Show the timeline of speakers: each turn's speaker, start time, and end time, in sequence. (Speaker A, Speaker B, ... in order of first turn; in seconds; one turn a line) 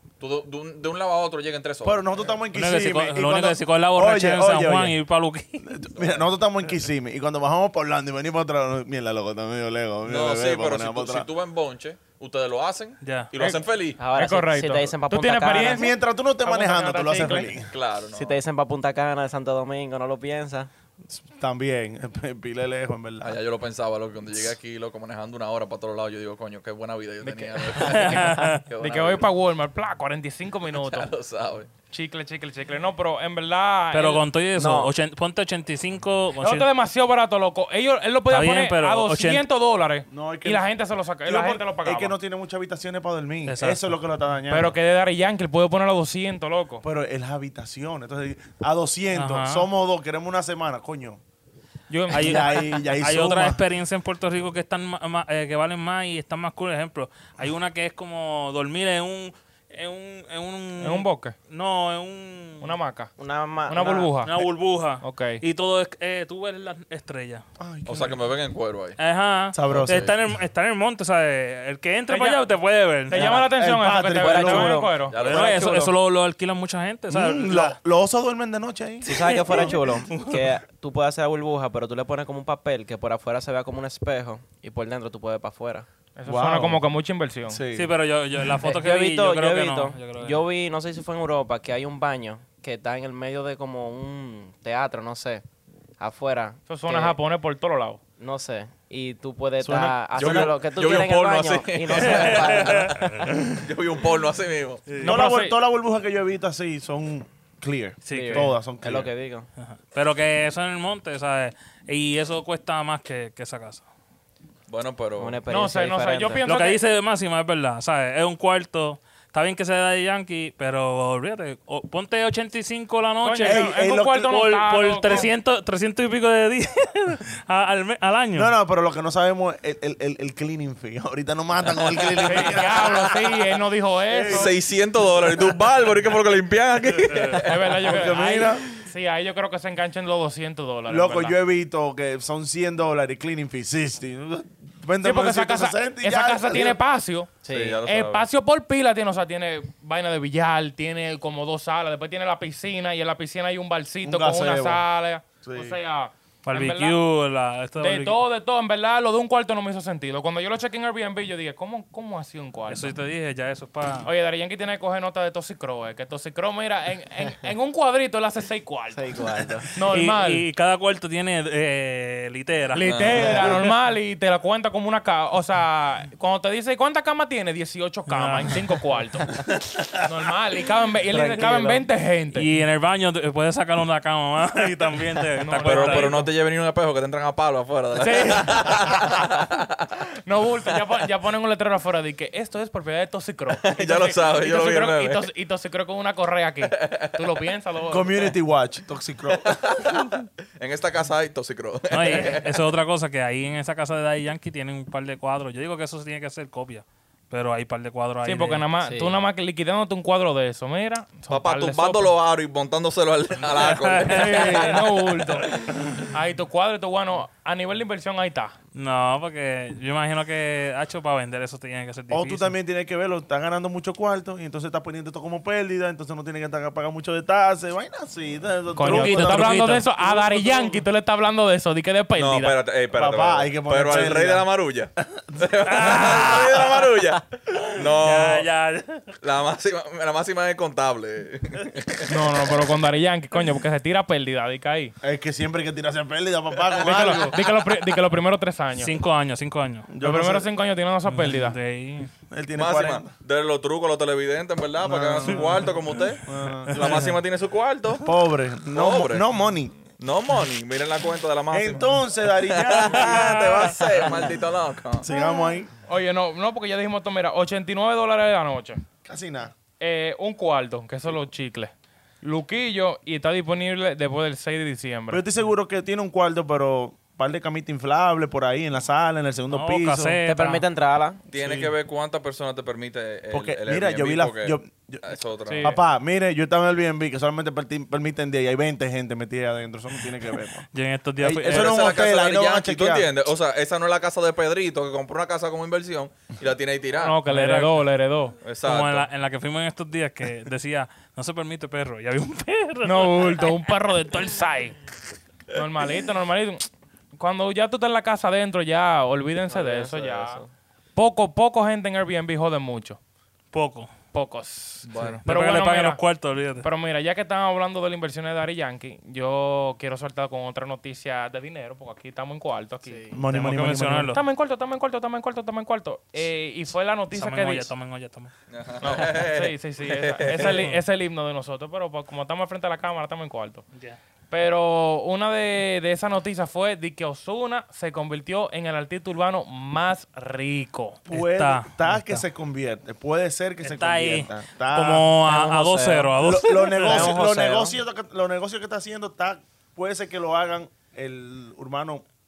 Speaker A: 0.2-2.1
Speaker B: 1.8-5.0
Speaker C: 2.5-5.7
Speaker B: 5.6-11.3
Speaker A: 6.0-6.2
Speaker A: 10.0-14.0
Speaker C: 13.0-13.3
Speaker D: 13.4-13.6
Speaker E: 14.0-15.9
Speaker D: 14.1-17.5
Speaker B: 15.6-17.7
Speaker A: 17.7-18.4
Speaker E: 18.1-20.7
Speaker B: 21.1-23.4
Speaker A: 23.2-29.3
Speaker D: 27.2-31.1
Speaker C: 27.8-28.6
Speaker A: 30.7-31.7
Speaker D: 31.9-34.2
Speaker C: 33.9-36.7
Speaker E: 34.6-34.9
Speaker D: 36.4-42.1
Speaker C: 38.3-39.4
Speaker B: 40.1-40.6
Speaker B: 41.2-44.7
Speaker C: 43.5-43.9
Speaker D: 44.5-46.8
Speaker B: 46.8-51.2
Speaker C: 49.1-49.7
Speaker D: 51.9-52.7
Speaker C: 52.1-62.7
Speaker B: 52.1-53.6
Speaker D: 60.8-61.3
Speaker D: 62.6-63.1
Speaker E: 63.2-64.1
Speaker D: 63.7-64.4
Speaker C: 64.2-67.4
Speaker D: 65.0-65.4
Speaker B: 67.6-68.2
Speaker A: 67.8-69.0
Speaker C: 69.0-73.3
Speaker B: 69.5-70.1
Speaker A: 69.7-70.1
Speaker D: 72.1-72.5
Speaker D: 73.0-75.9
Speaker E: 73.1-73.5
Speaker B: 73.5-74.9
Speaker E: 74.2-74.9
Speaker A: 75.1-75.7
Speaker C: 75.2-77.8
Speaker B: 77.1-79.8
Speaker E: 79.0-85.9
Speaker C: 79.1-80.5
Speaker D: 86.2-87.6
Speaker B: 86.3-86.8
Speaker B: 87.5-87.9
Speaker C: 87.7-90.4
Speaker E: 88.6-95.4
Speaker E: 96.0-97.2
Speaker D: 96.7-98.0
Speaker E: 98.2-103.2
Speaker B: 99.6-100.5
Speaker A: 100.2-104.8
Speaker C: 102.0-103.2
Speaker C: 104.9-105.2
Speaker D: 105.0-105.6
Speaker B: 105.0-109.1
Speaker C: 108.0-108.5
Speaker E: 108.1-109.5
Speaker C: 109.6-113.8
Speaker A: 114.7-115.4
Speaker E: 115.2-116.4
Speaker D: 115.5-116.8
Speaker C: 116.4-128.5
Speaker D: 123.2-125.3
Speaker B: 123.4-124.3
Speaker B: 128.3-133.2
Speaker D: 132.2-134.5
Speaker B: 134.1-134.6
Speaker A: 134.3-137.8
Speaker C: 137.1-137.4
Speaker D: 137.3-141.3
Speaker B: 137.8-138.7
Speaker B: 140.9-146.8
Speaker D: 145.0-147.3
Speaker E: 147.4-147.8
Speaker A: 147.5-148.2
Speaker D: 147.8-157.0
Speaker B: 154.0-154.8
Speaker B: 155.4-155.8
Speaker C: 156.4-158.2
Speaker D: 157.8-162.9
Speaker C: 162.7-164.1
Speaker D: 164.0-169.1
Speaker E: 168.9-169.7
Speaker D: 169.7-170.4
Speaker C: 169.8-173.5
Speaker D: 172.7-179.4
Speaker A: 172.8-173.4
Speaker C: 178.1-178.8
Speaker D: 180.0-182.5
Speaker B: 181.1-181.8
Speaker C: 182.3-186.2
Speaker D: 185.4-186.3
Speaker A: 185.6-189.9
Speaker D: 188.0-188.9
Speaker D: 190.2-198.2
Speaker A: 193.5-195.3
Speaker A: 196.7-197.2
Speaker B: 197.9-200.0
Speaker A: 199.3-202.6
Speaker C: 201.9-208.7
Speaker D: 208.2-212.1
Speaker E: 208.8-209.2
Speaker A: 211.3-214.8
Speaker C: 213.5-215.0
Speaker D: 214.0-218.5
Speaker C: 215.5-216.1
Speaker C: 218.7-222.5
Speaker B: 222.1-230.8
Speaker D: 228.8-232.6
Speaker C: 228.8-229.9
Speaker A: 232.2-238.4
Speaker B: 232.9-234.5
Speaker B: 235.0-235.5
Speaker C: 235.6-236.8
Speaker C: 237.7-239.1
Speaker A: 239.2-242.5
Speaker D: 242.1-244.9
Speaker B: 245.0-247.4
Speaker D: 246.8-248.9
Speaker C: 248.8-249.9
Speaker B: 249.9-250.5
Speaker D: 250.0-251.6
Speaker C: 251.1-252.1
Speaker B: 252.3-253.1
Speaker A: 252.5-258.1
Speaker B: 254.8-255.7
Speaker B: 256.2-257.1
Speaker C: 256.7-257.1
Speaker B: 258.0-259.7
Speaker A: 258.7-259.2
Speaker A: 260.0-265.1
Speaker B: 261.5-264.3
Speaker C: 262.9-263.8
Speaker B: 265.0-265.7
Speaker D: 265.9-268.8
Speaker B: 269.0-269.5
Speaker D: 269.8-275.2
Speaker B: 275.1-280.2
Speaker C: 279.5-280.6
Speaker E: 280.2-281.2
Speaker A: 281.3-285.7
Speaker B: 281.3-281.7
Speaker B: 283.3-290.6
Speaker D: 285.5-285.8
Speaker C: 290.7-291.8
Speaker B: 291.2-293.1
Speaker A: 291.4-297.2
Speaker D: 296.9-298.4
Speaker C: 297.2-297.8
Speaker A: 298.4-299.1
Speaker C: 298.6-303.7
Speaker D: 302.8-304.8
Speaker D: 305.5-310.4
Speaker E: 309.5-310.5
Speaker D: 310.9-313.0
Speaker C: 313.5-313.9
Speaker D: 314.1-316.0
Speaker A: 314.8-315.2
Speaker C: 315.2-316.7
Speaker D: 316.6-323.1
Speaker E: 322.8-323.2
Speaker B: 323.1-324.2
Speaker C: 323.3-324.2
Speaker D: 324.1-327.7
Speaker C: 327.1-328.3
Speaker A: 328.5-330.7
Speaker D: 328.8-333.6
Speaker C: 330.4-330.8
Speaker D: 334.3-341.0
Speaker B: 341.1-345.1
Speaker C: 341.1-342.2
Speaker C: 343.6-347.1
Speaker E: 345.2-347.8
Speaker B: 346.2-352.0